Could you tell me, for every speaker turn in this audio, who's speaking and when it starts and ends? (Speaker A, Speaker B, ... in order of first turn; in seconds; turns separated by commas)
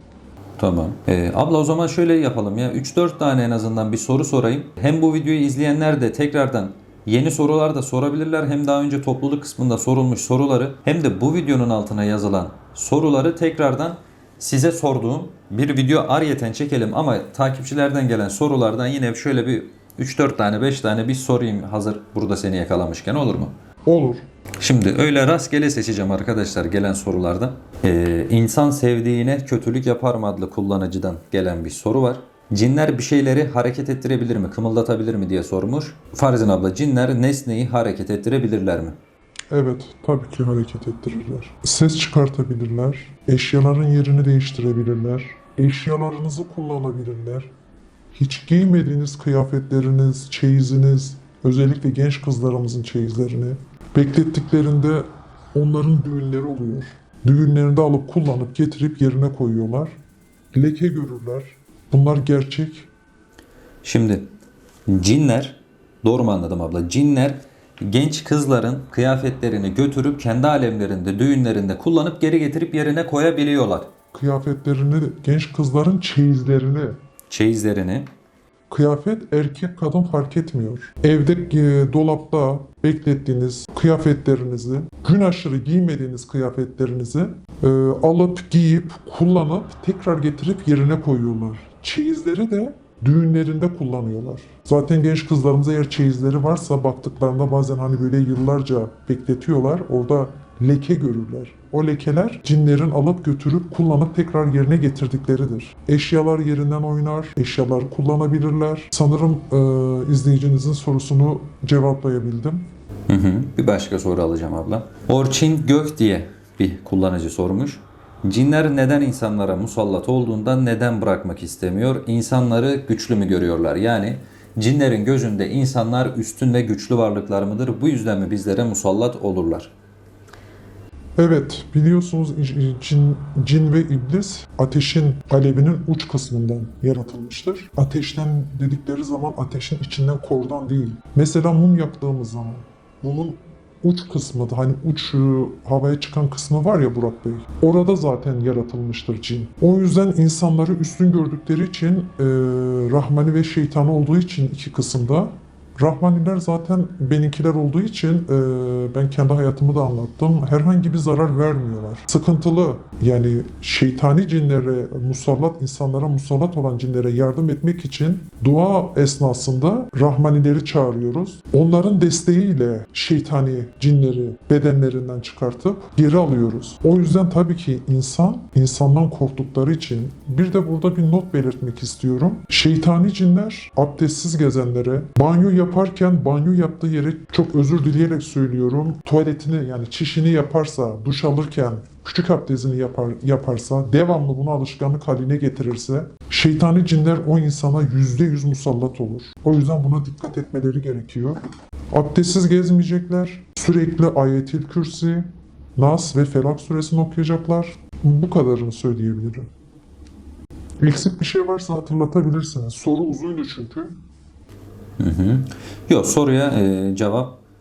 Speaker A: 0.6-23.5, Speaker B: 23.9-24.2, Speaker A: 24.6-39.0, Speaker B: 39.5-47.5, Speaker B: 48.1-60.0, Speaker B: 60.5-62.9, Speaker A: 63.8-64.2, Speaker A: 64.9-73.9, Speaker B: 74.1-77.0, Speaker A: 77.3-78.1, Speaker B: 78.7-112.7, Speaker A: 113.1-129.7, Speaker B: 131.2-201.4, Speaker B: 201.9-209.5, Speaker B: 210.8-213.9, Speaker A: 215.0-217.4